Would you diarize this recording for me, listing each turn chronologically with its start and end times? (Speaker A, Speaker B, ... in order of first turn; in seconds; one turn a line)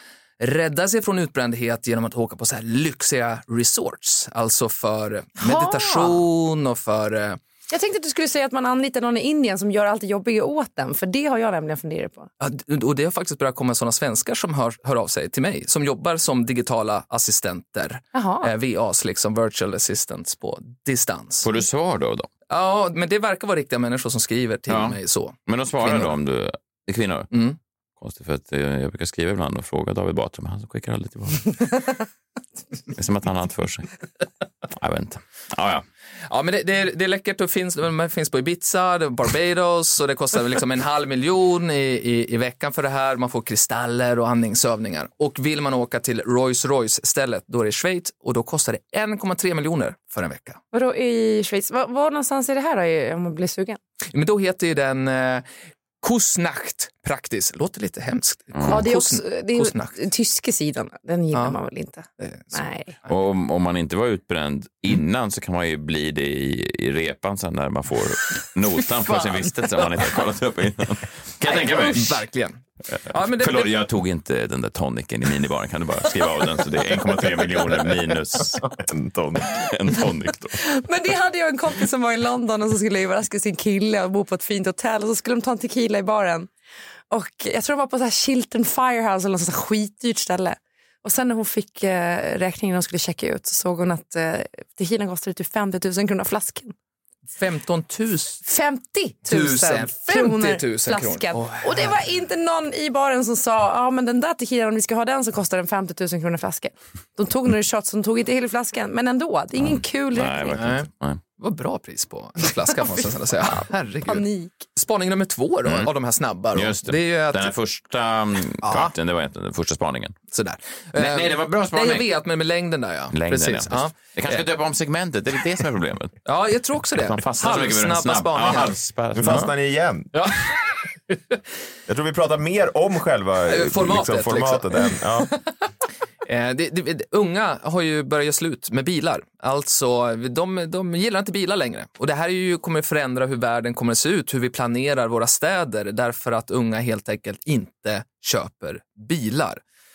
Speaker A: 0.4-7.4
Speaker B: 5.4-6.2
Speaker B: 7.7-12.3
Speaker A: 12.4-21.5
Speaker B: 18.1-18.5
Speaker C: 21.4-22.3
Speaker A: 22.5-26.1
Speaker C: 24.7-27.3
Speaker A: 27.3-27.6
Speaker C: 28.0-32.0
Speaker C: 32.9-33.9
Speaker C: 34.8-35.8
Speaker A: 36.3-50.6
Speaker B: 50.7-53.8
Speaker A: 54.1-55.5
Speaker A: 56.0-60.0
Speaker C: 58.5-58.9
Speaker B: 58.6-62.9
Speaker A: 62.2-62.6
Speaker C: 63.1-72.2
Speaker A: 71.4-73.7
Speaker C: 73.2-78.7
Speaker D: 78.6-79.6
Speaker C: 79.5-80.6
Speaker B: 80.7-86.5
Speaker B: 87.1-96.7
Speaker A: 97.3-98.4
Speaker B: 98.4-110.6
Speaker A: 99.3-102.0
Speaker C: 109.6-111.2
Speaker A: 110.5-117.5
Speaker B: 113.4-114.6
Speaker C: 115.6-115.9
Speaker C: 116.5-120.2
Speaker A: 118.6-118.9
Speaker A: 120.3-124.5
Speaker C: 121.0-122.1
Speaker C: 123.1-126.2
Speaker A: 126.2-129.4
Speaker C: 126.9-129.5
Speaker D: 129.1-130.1
Speaker A: 130.1-130.6
Speaker A: 131.1-131.4
Speaker D: 131.9-135.3
Speaker A: 133.5-134.8
Speaker A: 136.2-149.6